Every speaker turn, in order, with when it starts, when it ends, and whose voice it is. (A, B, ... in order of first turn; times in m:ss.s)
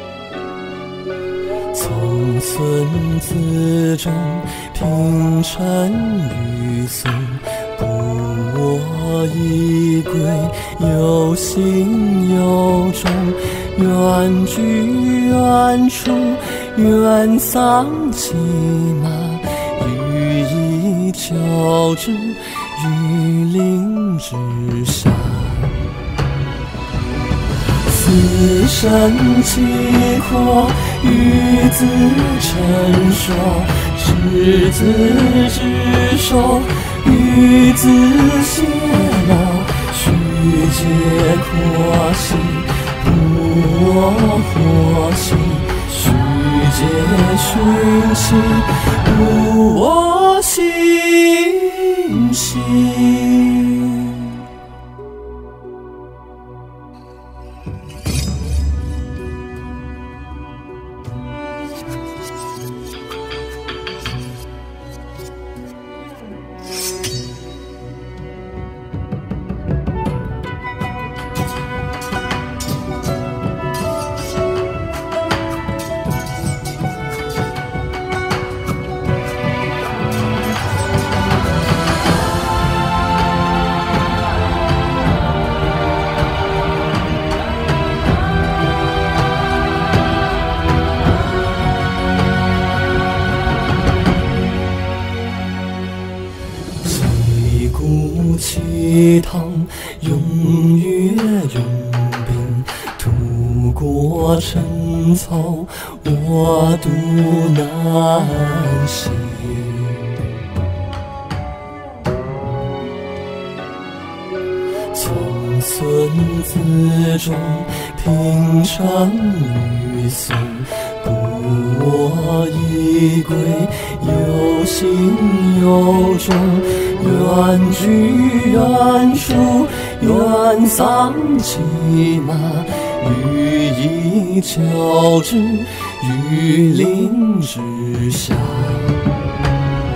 0:01.7-0:25.9 A
0:27.8-0:54.5 A
1:36.8-1:50.3 A
1:54.9-2:19.2 A